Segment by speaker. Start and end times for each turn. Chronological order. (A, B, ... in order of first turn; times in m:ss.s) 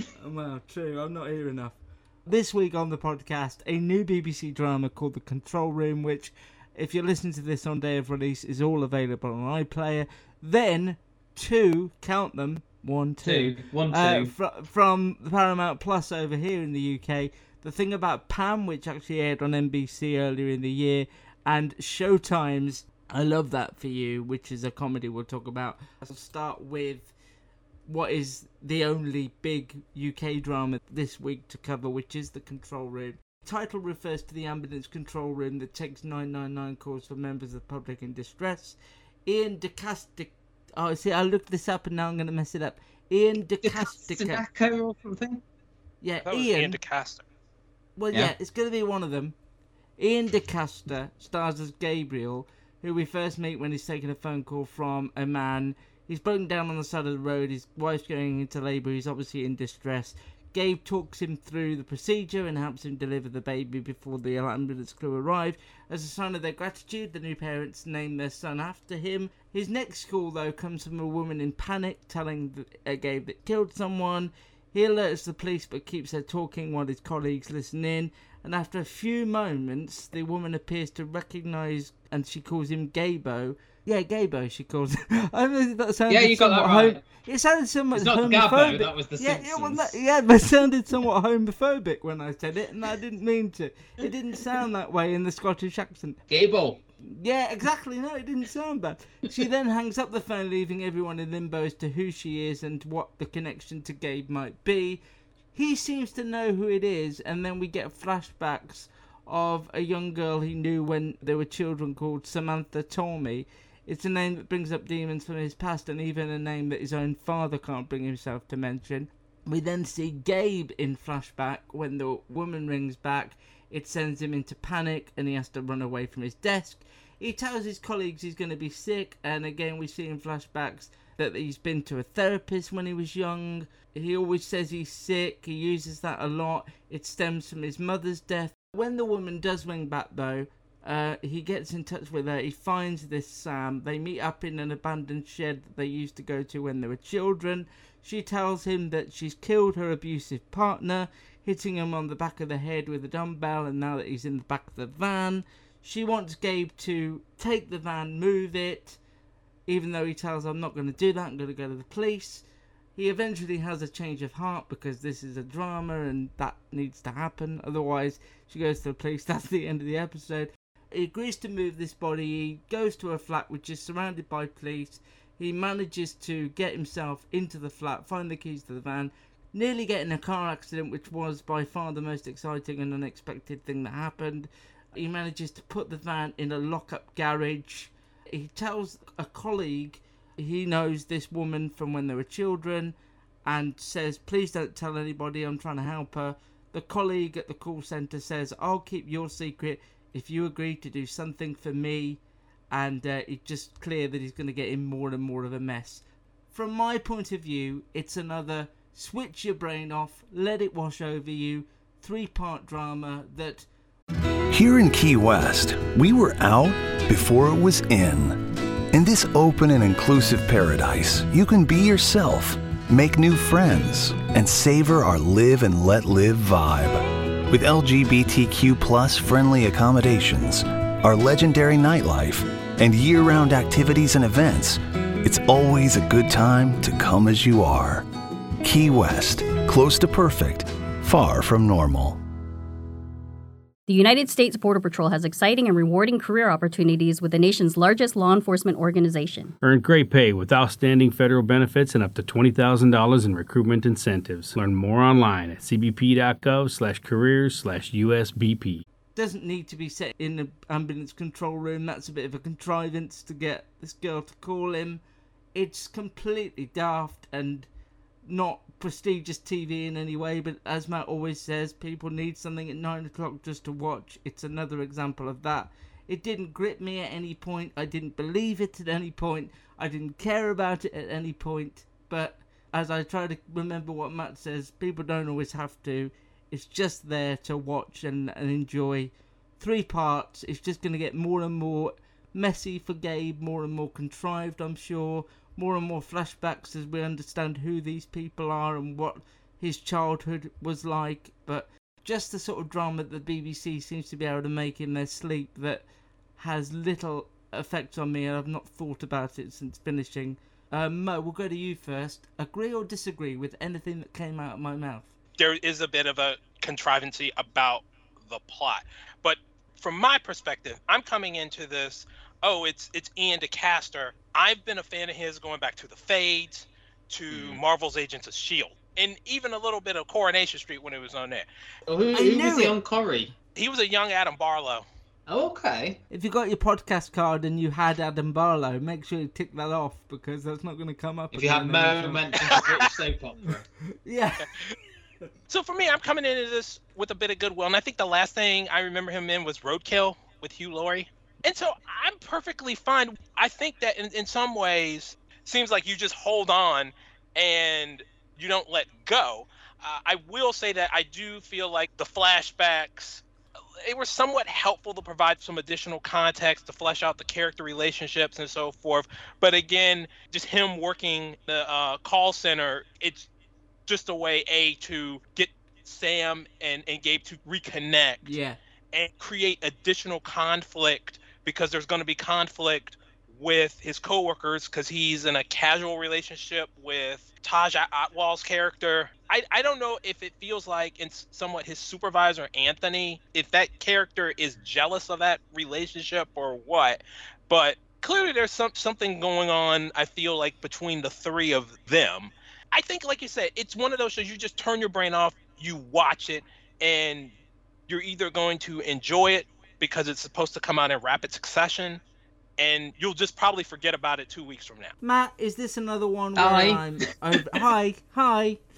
0:00.2-0:27.1 A
0:13.2-0:14.3 B
0:27.9-0:44.4 A
0:43.6-0:45.4 B
0:46.0-0:46.8 A
0:46.3-0:47.2 C
0:48.0-0:49.4 A
0:50.0-1:36.2 A
1:26.1-1:27.0 B
1:27.9-1:30.0 B
1:36.3-1:36.8 B
1:37.0-1:45.0 A
1:45.5-2:39.0 A
2:39.7-2:42.4 A
2:43.0-3:22.2 A
3:22.7-3:33.7 A
3:34.5-3:58.1 D
3:58.6-4:02.2 D
4:03.9-4:09.5 E
4:09.6-4:18.8 F
4:19.2-4:25.0 A
4:25.6-4:27.7 A
4:28.2-5:05.8 A
5:06.4-5:15.1 A
5:15.4-5:31.5 C
5:27.3-5:27.6 B
5:31.9-5:33.3 B
5:32.1-5:32.8 A
5:33.6-5:34.9 C
5:35.3-5:36.0 B
5:36.1-5:42.2 A
5:41.3-5:43.6 B
5:42.5-5:42.9 C
5:44.0-5:44.5 A
5:45.5-6:03.2 C
6:03.8-6:13.3 C
6:13.9-6:18.3 C
6:18.2-6:18.6 A
6:18.9-6:47.3 C
6:47.9-6:52.0 C
6:52.6-6:55.0 C
6:55.0-6:58.6 A
6:56.4-6:56.9 B